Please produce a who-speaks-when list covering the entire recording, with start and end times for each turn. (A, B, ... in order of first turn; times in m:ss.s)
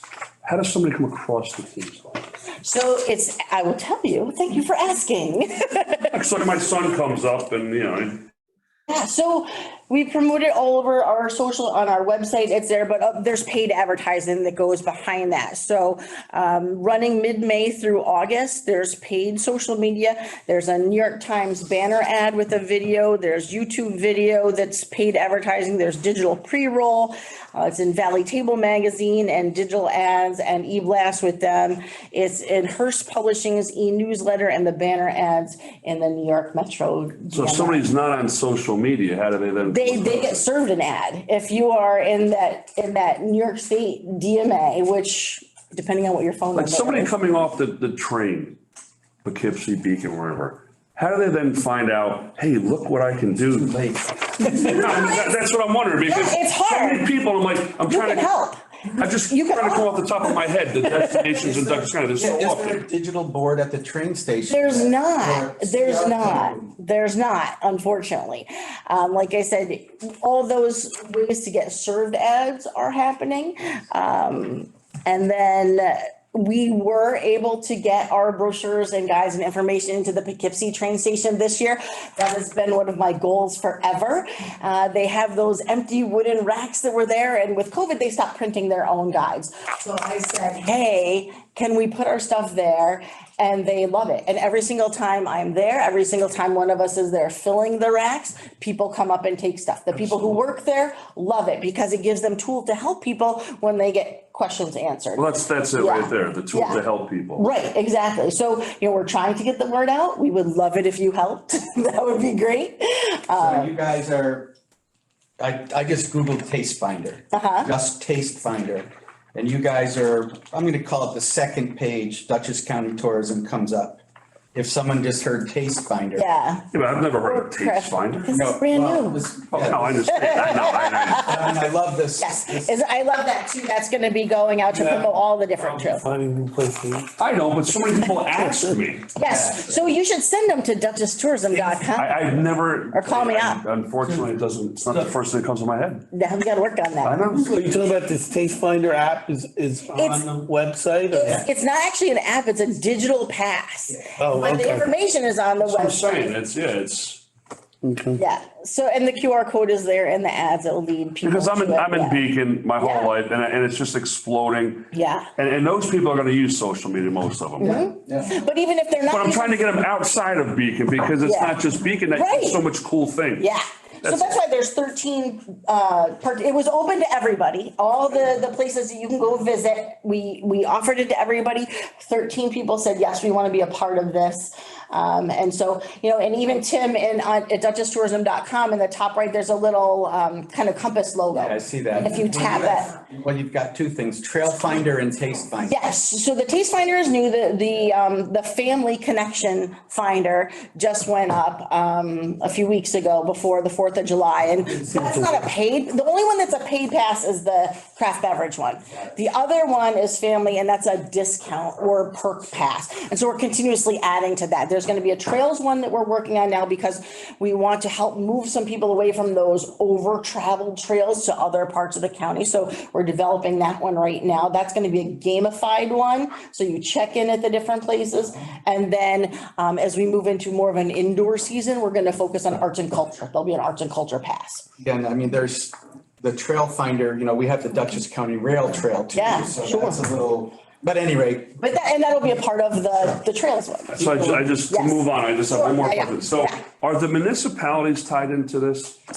0:00.4-0:02.3 A
0:02.6-0:06.1 B
0:06.1-0:08.3 A
0:08.9-0:37.9 B
0:37.3-0:40.4 A
0:39.7-0:47.1 B
0:46.6-0:48.6 A
0:49.2-0:53.8 A
0:53.6-0:54.7 C
0:54.4-0:55.4 B
0:54.5-0:58.3 A
0:56.1-0:57.1 B
0:57.9-1:00.2 B
0:59.0-1:02.8 A
1:01.4-1:06.7 C
1:04.5-1:46.8 B
1:45.2-1:47.5 A
1:47.4-1:53.8 B
1:53.4-1:54.5 C
1:55.4-2:04.0 C
1:57.3-1:57.7 B
2:04.5-2:06.2 C
2:06.2-2:09.3 B
2:06.7-2:08.3 A
2:08.3-2:10.2 C
2:09.5-2:11.4 A
2:10.1-2:11.7 B
2:11.2-2:12.8 C
2:12.2-2:16.1 B
2:14.7-2:15.1 D
2:15.8-2:17.1 D
2:17.2-2:19.1 A
2:19.2-2:22.3 B
2:19.2-2:19.9 C
2:21.9-2:26.1 A
2:22.9-2:23.6 B
2:26.1-2:27.3 B
2:27.0-2:27.7 A
2:27.4-2:31.4 D
2:30.0-2:30.4 B
2:31.1-2:36.3 B
2:33.9-2:34.2 C
2:34.2-2:34.9 D
2:35.6-2:37.2 A
2:37.8-2:38.2 D
2:38.2-2:42.2 B
2:41.2-2:47.8 A
2:42.8-2:43.1 B
2:44.9-2:45.3 B
2:47.6-2:49.7 B
2:47.8-2:48.2 C
2:49.1-2:53.5 A
2:51.2-2:51.6 B
2:52.1-2:52.6 B
2:53.4-3:13.0 B
2:54.0-2:54.4 A
3:11.3-3:15.8 C
3:15.7-3:54.7 B
3:54.8-4:01.6 C
3:59.1-4:00.0 B
4:01.6-4:06.6 B
4:03.9-4:09.0 A